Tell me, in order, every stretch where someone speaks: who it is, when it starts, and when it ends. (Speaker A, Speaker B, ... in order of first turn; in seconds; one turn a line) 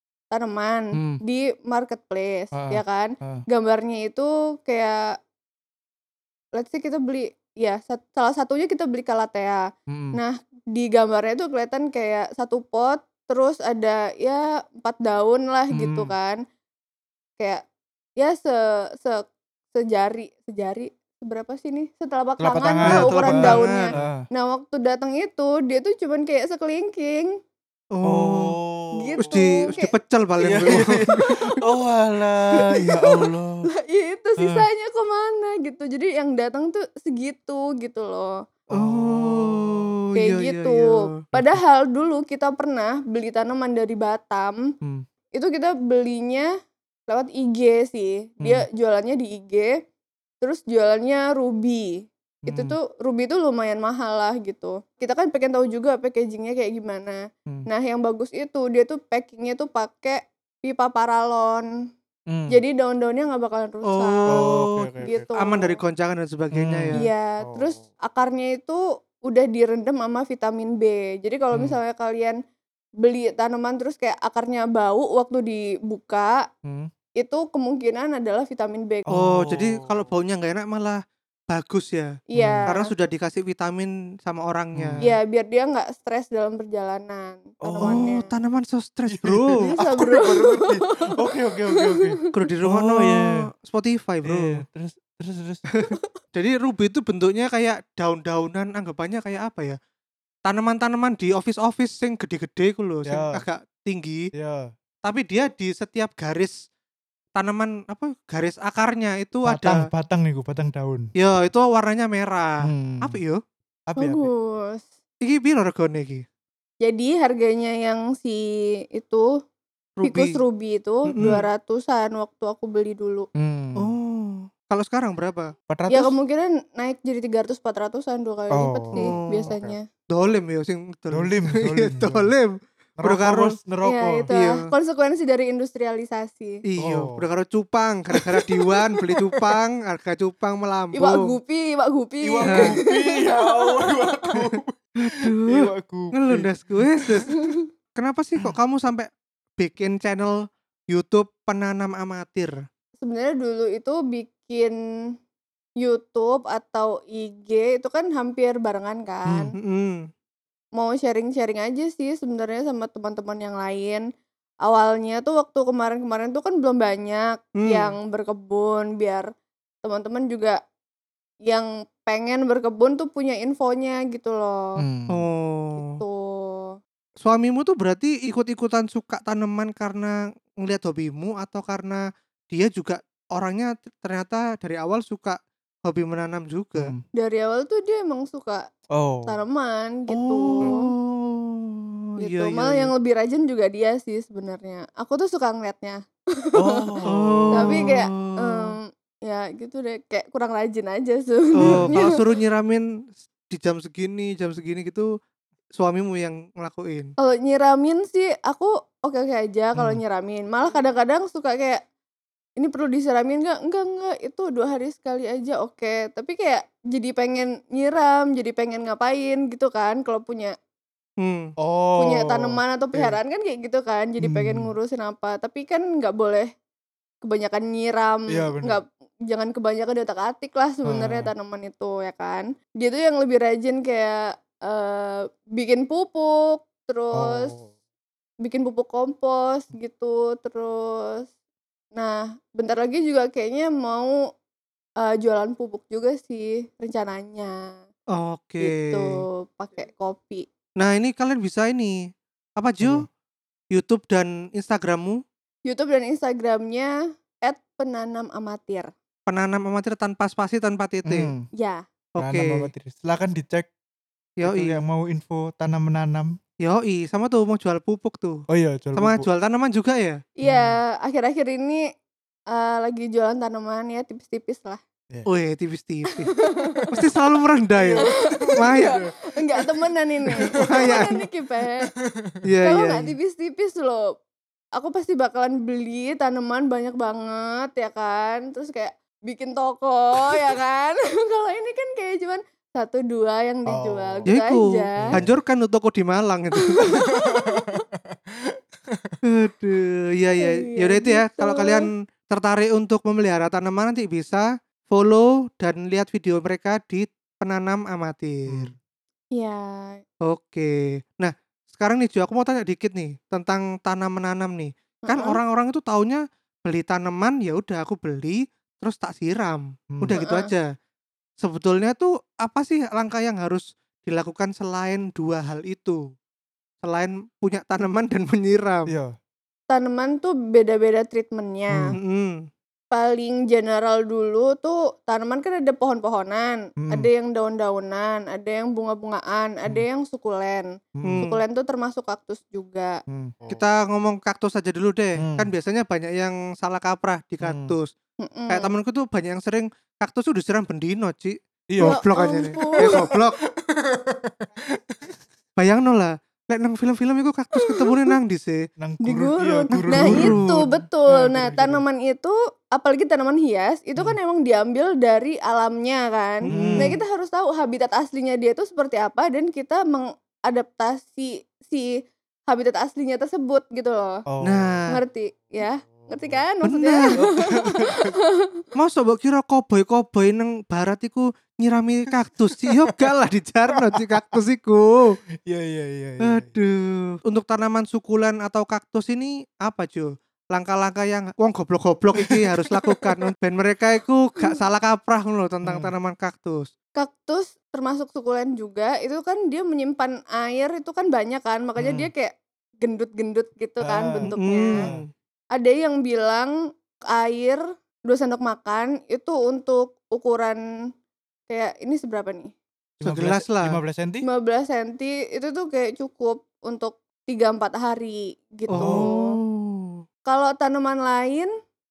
Speaker A: 0.3-5.2
Speaker B: 0.9-1.2
Speaker B: 2.5-3.4
Speaker A: 6.6-16.4
Speaker B: 9.9-10.2
Speaker B: 15.7-16.1
Speaker A: 18.2-27.3
Speaker B: 22.4-24.2
Speaker C: 22.9-23.9
Speaker C: 27.9-28.5
Speaker B: 28.0-29.4
Speaker A: 29.0-29.9
Speaker C: 29.2-31.4
Speaker B: 30.4-33.6
Speaker A: 31.1-31.4
Speaker A: 32.5-33.1
Speaker A: 33.8-38.4
Speaker B: 34.4-34.7
Speaker B: 38.7-39.9
Speaker C: 38.8-41.0
Speaker A: 40.2-44.6
Speaker B: 41.3-41.6
Speaker A: 45.3-46.5
Speaker A: 47.1-49.8
Speaker A: 50.4-61.7
Speaker B: 52.4-52.8
Speaker B: 62.3-62.6
Speaker A: 62.5-64.5
Speaker C: 63.9-67.0
Speaker B: 64.3-65.3
Speaker A: 65.0-65.8
Speaker B: 66.5-67.8
Speaker A: 66.9-72.4
Speaker B: 71.5-71.8
Speaker A: 73.0-76.4
Speaker B: 76.6-76.9
Speaker A: 77.2-79.1
Speaker B: 79.1-80.1
Speaker C: 79.1-81.0
Speaker C: 81.5-82.1
Speaker A: 82.3-82.9
Speaker B: 82.4-82.7
Speaker C: 82.7-85.1
Speaker B: 84.7-85.0
Speaker A: 85.0-88.3
Speaker B: 87.6-88.1
Speaker C: 87.8-89.6
Speaker B: 89.1-93.4
Speaker A: 89.6-92.3
Speaker C: 92.3-94.6
Speaker B: 94.2-95.7
Speaker C: 95.8-99.8
Speaker C: 100.5-104.2
Speaker B: 103.1-103.4
Speaker B: 104.3-104.7
Speaker C: 105.0-106.5
Speaker C: 107.3-109.8
Speaker B: 109.5-111.1
Speaker C: 111.2-113.4
Speaker B: 112.6-113.2
Speaker B: 113.9-114.3
Speaker A: 114.0-114.9
Speaker C: 115.2-116.2
Speaker A: 116.8-119.3
Speaker C: 120.0-120.4
Speaker A: 120.0-123.3
Speaker C: 121.1-121.4
Speaker B: 123.3-123.9
Speaker C: 123.8-125.5
Speaker B: 125.7-126.1
Speaker A: 125.9-129.8
Speaker B: 128.5-129.7
Speaker C: 128.9-129.5
Speaker C: 130.1-132.5
Speaker B: 131.1-132.3
Speaker B: 133.0-134.3
Speaker C: 133.0-133.5
Speaker A: 133.8-136.6
Speaker C: 134.3-134.7
Speaker C: 136.7-141.3
Speaker B: 136.8-137.2
Speaker A: 140.9-144.4
Speaker B: 142.2-147.4
Speaker C: 142.5-142.8
Speaker C: 144.3-147.3
Speaker A: 147.3-147.6
Speaker C: 148.0-150.4
Speaker C: 150.9-152.6
Speaker A: 153.0-154.8
Speaker A: 155.8-159.5
Speaker C: 159.5-160.0
Speaker A: 160.8-164.0
Speaker A: 164.6-169.3
Speaker C: 167.6-167.9
Speaker A: 169.8-170.6
Speaker A: 171.5-174.8
Speaker B: 174.8-175.2
Speaker C: 175.1-175.9
Speaker A: 175.8-176.7
Speaker C: 177.2-186.9
Speaker B: 186.8-187.0
Speaker A: 187.2-188.7
Speaker B: 188.9-189.3
Speaker A: 189.3-190.8
Speaker C: 190.1-192.9
Speaker A: 192.2-197.0
Speaker B: 196.6-197.9
Speaker C: 197.0-198.7
Speaker A: 197.5-202.1
Speaker C: 201.6-202.8
Speaker B: 201.6-202.1
Speaker C: 203.5-205.1
Speaker C: 205.8-207.1
Speaker A: 207.2-211.8
Speaker B: 209.8-210.0
Speaker A: 212.6-220.5
Speaker C: 221.2-221.5
Speaker B: 221.6-223.1
Speaker A: 222.0-226.5
Speaker B: 224.2-224.7
Speaker A: 227.2-237.5
Speaker B: 228.3-228.8
Speaker B: 230.9-231.3
Speaker B: 237.1-237.7
Speaker A: 238.4-241.3
Speaker A: 241.9-244.1
Speaker A: 245.0-247.8
Speaker C: 248.1-249.1
Speaker A: 248.6-250.5
Speaker C: 250.8-252.0
Speaker C: 252.6-253.1
Speaker B: 252.8-253.1
Speaker C: 253.7-255.2
Speaker A: 255.7-258.9
Speaker C: 259.3-261.3
Speaker B: 261.1-261.5
Speaker A: 261.6-261.8
Speaker C: 262.2-262.7
Speaker B: 262.2-263.7
Speaker C: 264.4-264.8
Speaker B: 264.4-266.3
Speaker C: 266.6-268.4
Speaker B: 268.5-269.2
Speaker C: 268.9-270.2
Speaker A: 270.4-271.8
Speaker B: 270.4-270.8
Speaker A: 272.5-274.8
Speaker C: 275.3-276.3
Speaker A: 276.2-276.8
Speaker B: 276.7-277.1
Speaker C: 276.9-279.0
Speaker B: 277.8-279.6
Speaker A: 278.0-281.9
Speaker B: 280.3-281.2
Speaker C: 280.5-281.2
Speaker B: 281.9-282.4
Speaker C: 282.4-283.1
Speaker A: 282.6-284.1
Speaker A: 284.8-295.2
Speaker B: 293.7-294.3
Speaker C: 294.3-296.9
Speaker B: 295.0-295.3
Speaker A: 296.6-297.8
Speaker B: 296.9-299.2
Speaker C: 299.2-308.7
Speaker A: 300.4-301.8
Speaker B: 308.5-308.8
Speaker A: 309.3-310.0
Speaker C: 310.3-320.7
Speaker A: 315.1-315.4
Speaker B: 319.9-320.2
Speaker A: 320.1-320.5
Speaker C: 321.4-326.0
Speaker C: 326.8-328.9
Speaker B: 328.9-329.1
Speaker A: 329.7-331.9
Speaker C: 331.9-332.4
Speaker A: 332.9-340.7
Speaker B: 336.8-337.1
Speaker B: 341.0-341.2
Speaker C: 341.0-341.4
Speaker A: 341.2-343.0
Speaker B: 343.1-343.6
Speaker C: 343.5-347.9
Speaker B: 345.2-345.5
Speaker B: 347.4-347.7
Speaker A: 348.2-348.7
Speaker C: 348.5-353.4
Speaker B: 351.7-352.0
Speaker A: 351.8-353.0
Speaker B: 352.6-355.2
Speaker C: 355.6-358.6
Speaker A: 357.6-358.0
Speaker B: 358.8-361.8
Speaker A: 359.0-374.2
Speaker C: 359.7-360.6
Speaker B: 366.5-366.9
Speaker C: 366.5-367.0
Speaker B: 374.3-374.8
Speaker C: 374.4-375.0
Speaker A: 374.9-378.6
Speaker B: 376.0-376.4
Speaker C: 376.7-377.2
Speaker B: 377.2-378.2
Speaker C: 378.8-385.2
Speaker B: 382.7-383.1
Speaker B: 383.7-384.4
Speaker B: 385.4-386.5
Speaker C: 386.2-396.7
Speaker B: 392.2-393.3
Speaker B: 395.6-395.9
Speaker A: 397.0-404.8
Speaker B: 401.8-402.1
Speaker B: 403.8-405.0
Speaker C: 404.4-405.1
Speaker A: 405.5-406.5
Speaker A: 407.1-410.6
Speaker A: 411.5-412.5
Speaker C: 413.0-413.7
Speaker B: 413.0-414.2
Speaker A: 414.2-419.3
Speaker C: 418.7-420.0
Speaker B: 418.8-419.1
Speaker A: 420.3-421.5